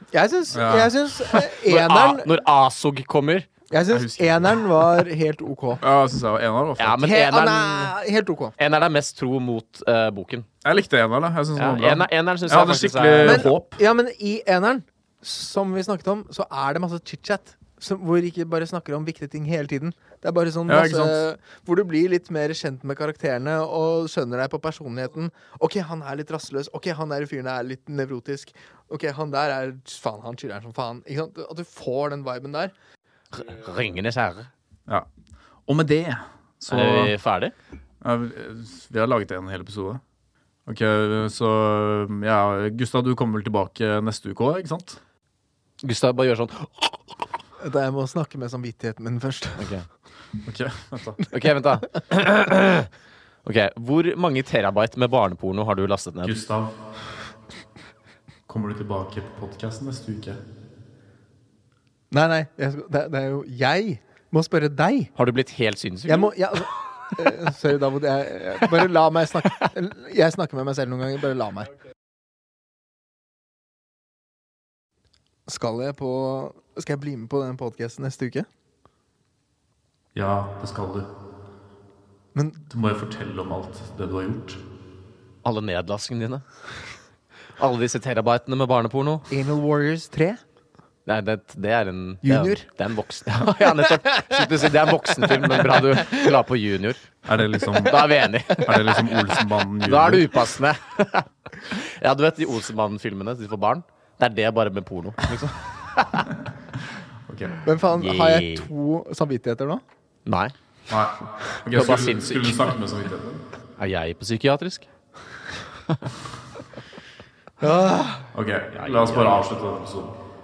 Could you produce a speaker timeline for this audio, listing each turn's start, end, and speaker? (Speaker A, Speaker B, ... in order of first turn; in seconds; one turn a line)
Speaker A: 0.1-2.3
Speaker B: 0.5-0.9
Speaker C: 1.3-3.5
Speaker A: 3.7-5.8
Speaker B: 3.9-4.6
Speaker B: 5.8-7.0
Speaker C: 6.8-7.9
Speaker A: 7.0-8.6
Speaker C: 8.6-10.5
Speaker B: 10.6-13.8
Speaker C: 11.6-13.5
Speaker A: 13.2-32.7
Speaker B: 20.7-21.2
Speaker C: 33.3-34.5
Speaker B: 35.7-37.1
Speaker C: 36.7-37.5
Speaker B: 38.0-40.0
Speaker B: 40.7-45.0
Speaker C: 45.8-47.0
Speaker A: 47.6-49.7
Speaker C: 49.6-49.9
Speaker B: 50.4-51.2
Speaker C: 51.3-52.9
Speaker C: 53.5-56.4
Speaker B: 56.2-56.8
Speaker B: 58.5-60.4
Speaker A: 62.1-65.1
Speaker C: 65.2-66.3
Speaker A: 66.1-71.7
Speaker A: 75.5-78.5
Speaker B: 80.2-81.1
Speaker A: 82.3-82.6
Speaker B: 82.7-84.6
Speaker C: 85.4-86.4
Speaker C: 87.6-89.3
Speaker A: 89.3-90.4
Speaker C: 91.1-97.0
Speaker A: 92.2-92.7
Speaker A: 95.5-96.0
Speaker B: 97.3-100.5
Speaker C: 97.8-99.2
Speaker C: 99.8-106.3
Speaker B: 107.3-107.6
Speaker A: 107.6-109.8
Speaker C: 107.9-108.7
Speaker C: 110.3-110.5
Speaker B: 110.9-113.4
Speaker C: 111.7-112.6
Speaker C: 113.8-114.9
Speaker A: 117.6-118.3
Speaker B: 118.3-120.2
Speaker C: 118.8-119.4